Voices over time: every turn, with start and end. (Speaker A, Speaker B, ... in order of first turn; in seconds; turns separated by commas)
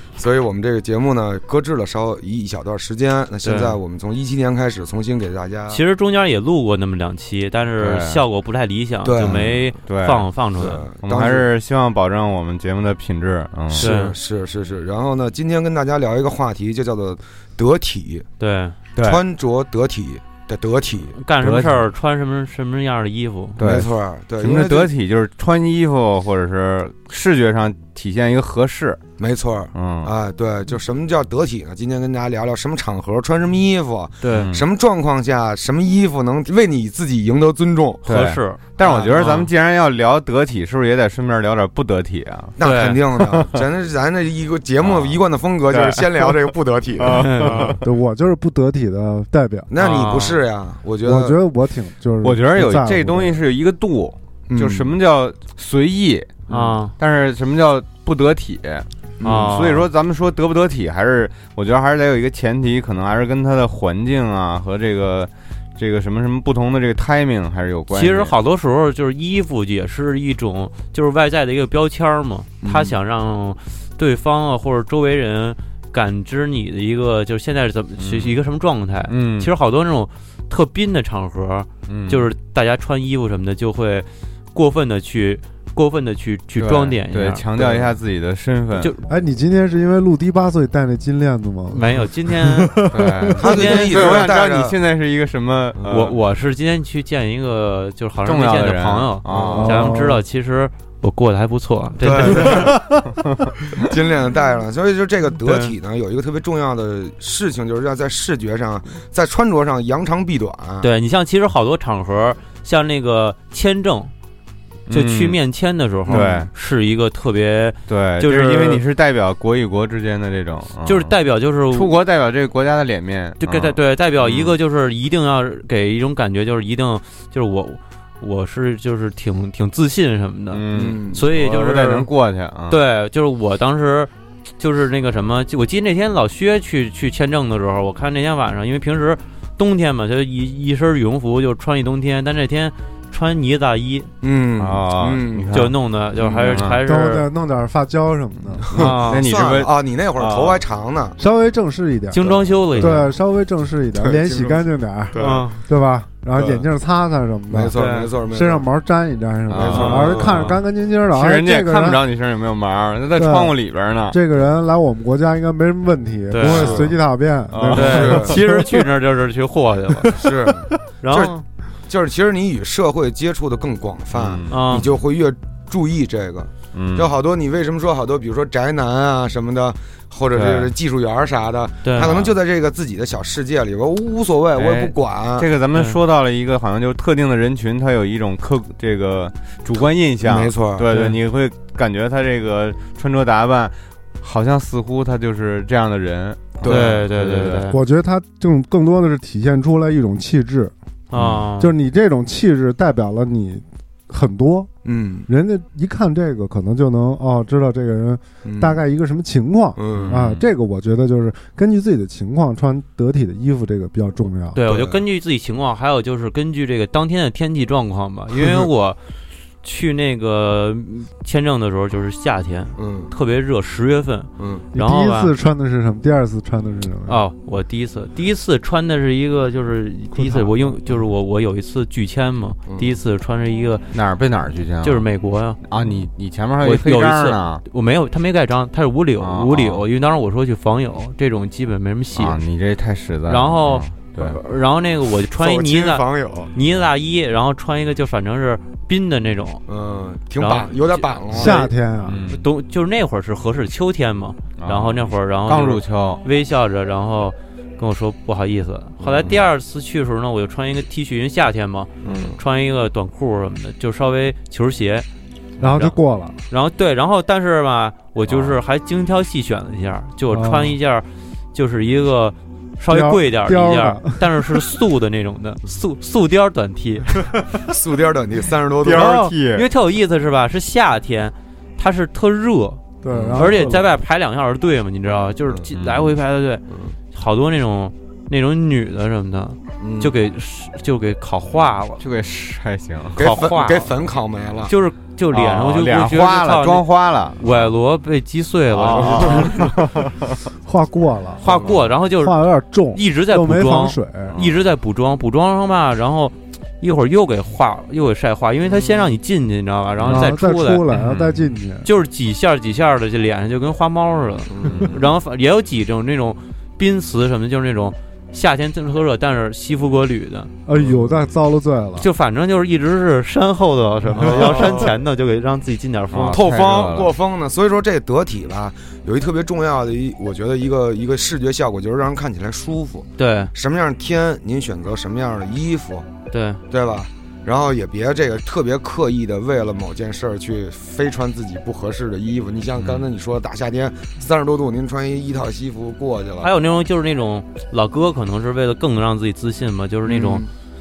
Speaker A: 0.1-5.8, Speaker B: 3.4-3.8, Speaker B: 5.7-10.8, Speaker C: 7.8-8.2, Speaker A: 9.0-9.7, Speaker C: 9.2-10.3, Speaker A: 10.6-11.5, Speaker C: 11.0-13.9, Speaker A: 13.7-18.3, Speaker B: 13.8-14.1, Speaker B: 18.4-18.8, Speaker A: 18.9-21.1, Speaker B: 21.2-23.6, Speaker C: 21.4-21.9, Speaker C: 23.6-29.0, Speaker A: 23.6-24.9, Speaker A: 29.2-38.0, Speaker C: 29.7-30.1, Speaker B: 34.2-34.5, Speaker C: 34.3-34.6, Speaker C: 38.0-42.5, Speaker B: 38.0-38.6, Speaker A: 38.8-39.1, Speaker B: 39.1-39.5, Speaker A: 42.6-47.8, Speaker B: 42.6-43.0, Speaker C: 43.2-43.6, Speaker C: 44.8-47.8, Speaker B: 47.1-47.7, Speaker D: 47.8-49.7, Speaker A: 49.7-51.4, Speaker B: 49.8-50.4, Speaker D: 51.0-53.4, Speaker C: 52.2-68.3, Speaker A: 54.5-54.9, Speaker B: 56.5-56.9, Speaker A: 59.2-59.6, Speaker B: 59.2-59.9, Speaker B: 67.9-87.4, Speaker A: 72.6-72.9, Speaker C: 78.0-78.3, Speaker C: 79.1-79.5, Speaker C: 81.9-82.2, Speaker A: 86.6-86.9, Speaker C: 87.1-88.9, Speaker A: 87.6-87.9, Speaker B: 88.8-89.0, Speaker D: 89.1-93.3, Speaker B: 91.7-92.8, Speaker C: 92.9-96.2, Speaker A: 93.3-94.8, Speaker B: 93.4-94.2, Speaker A: 95.7-96.1, Speaker B: 95.9-102.7, Speaker C: 98.2-99.9, Speaker A: 99.3-99.6, Speaker D: 99.3-100.2, Speaker A: 102.0-102.9, Speaker D: 102.7-103.0, Speaker C: 103.0-103.5, Speaker A: 103.7-110.9, Speaker B: 105.4-105.7, Speaker B: 110.8-114.1, Speaker C: 114.9-115.4, Speaker B: 114.9-118.8, Speaker A: 116.1-116.4, Speaker C: 116.1-116.5, Speaker C: 117.9-121.1, Speaker B: 120.8-121.9, Speaker C: 121.7-124.5, Speaker B: 123.4-132.1, Speaker C: 130.5-132.8, Speaker A: 130.7-131.2, Speaker B: 132.7-144.1, Speaker A: 144.2-145.5, Speaker C: 144.6-145.8, Speaker B: 145.5-147.3, Speaker A: 146.2-146.6, Speaker C: 146.4-146.8, Speaker D: 146.8-148.7, Speaker A: 148.7-151.2, Speaker C: 148.7-150.6, Speaker B: 148.7-149.2, Speaker D: 151.2-162.0, Speaker B: 152.1-153.1, Speaker A: 152.2-152.9, Speaker A: 153.9-155.5, Speaker B: 155.2-155.6, Speaker A: 156.3-156.7, Speaker A: 157.5-158.7, Speaker B: 157.7-158.1, Speaker C: 159.5-160.6, Speaker A: 159.5-160.4, Speaker B: 159.7-160.5, Speaker C: 161.1-164.2, Speaker D: 163.1-168.8, Speaker B: 166.3-166.7, Speaker C: 166.4-166.9, Speaker A: 166.5-166.9, Speaker C: 167.5-168.4, Speaker B: 167.7-170.1, Speaker A: 167.8-168.4, Speaker D: 170.0-170.5, Speaker A: 170.1-185.5, Speaker B: 171.0-171.4, Speaker C: 174.1-174.9, Speaker B: 174.5-174.9, Speaker C: 176.7-177.1, Speaker C: 180.3-180.7, Speaker B: 181.8-182.2, Speaker C: 182.0-182.3, Speaker C: 184.5-197.7, Speaker B: 185.7-186.0, Speaker A: 190.2-190.9, Speaker B: 190.9-191.2, Speaker A: 196.6-197.0, Speaker B: 196.6-197.8, Speaker D: 197.7-200.7, Speaker B: 201.1-201.7, Speaker D: 201.6-204.7, Speaker A: 204.8-205.3, Speaker D: 205.3-214.6, Speaker A: 208.4-208.8, Speaker A: 209.8-210.2, Speaker C: 209.9-210.5, Speaker B: 214.5-219.0, Speaker A: 214.6-215.0, Speaker A: 218.3-218.7, Speaker B: 219.6-225.3, Speaker A: 222.8-223.1, Speaker A: 224.4-224.7, Speaker D: 224.7-227.2, Speaker B: 227.1-233.9, Speaker D: 230.1-230.9, Speaker A: 232.7-232.9, Speaker C: 233.9-235.1, Speaker B: 234.8-235.6, Speaker C: 235.6-237.6, Speaker B: 236.6-242.4, Speaker C: 239.2-239.8, Speaker C: 242.1-244.4, Speaker B: 243.3-249.6, Speaker A: 245.3-246.5, Speaker A: 249.7-251.7, Speaker B: 250.4-251.7, Speaker D: 251.3-252.2, Speaker C: 252.0-252.4, Speaker B: 252.3-265.1, Speaker C: 254.6-256.2, Speaker A: 259.0-259.4, Speaker A: 262.0-262.4, Speaker D: 265.6-266.4, Speaker B: 265.6-266.0, Speaker B: 266.5-277.1, Speaker C: 268.3-268.6, Speaker D: 270.3-270.8, Speaker D: 272.9-274.7, Speaker A: 277.6-279.3, Speaker C: 278.8-279.6, Speaker B: 279.5-282.9, Speaker D: 283.0-283.8, Speaker A: 283.1-283.5, Speaker C: 283.1-283.4, Speaker B: 283.4-292.0, Speaker C: 285.7-286.1, Speaker A: 286.7-286.9, Speaker A: 289.8-290.1, Speaker C: 292.0-293.4, Speaker B: 293.2-293.9, Speaker A: 293.2-294.7, Speaker B: 294.7-296.9, Speaker C: 295.3-297.7, Speaker B: 297.4-299.6, Speaker C: 298.7-300.1, Speaker A: 299.2-299.4, Speaker D: 300.6-304.4, Speaker B: 301.4-310.8, Speaker A: 301.4-301.8, Speaker C: 304.3-304.6, Speaker A: 308.6-309.1, Speaker C: 310.0-310.3, Speaker D: 310.1-311.9, Speaker C: 310.9-311.5, Speaker B: 311.8-320.5, Speaker A: 314.5-315.0, Speaker C: 314.6-315.0, Speaker D: 320.6-322.1, Speaker A: 320.7-321.2, Speaker B: 322.0-326.4, Speaker A: 324.2-324.9, Speaker C: 326.1-327.1, Speaker A: 326.3-336.1, Speaker B: 333.2-333.5, Speaker B: 336.3-336.6, Speaker A: 336.7-346.5, Speaker C: 342.7-343.1, Speaker B: 346.4-350.4, Speaker A: 350.1-350.5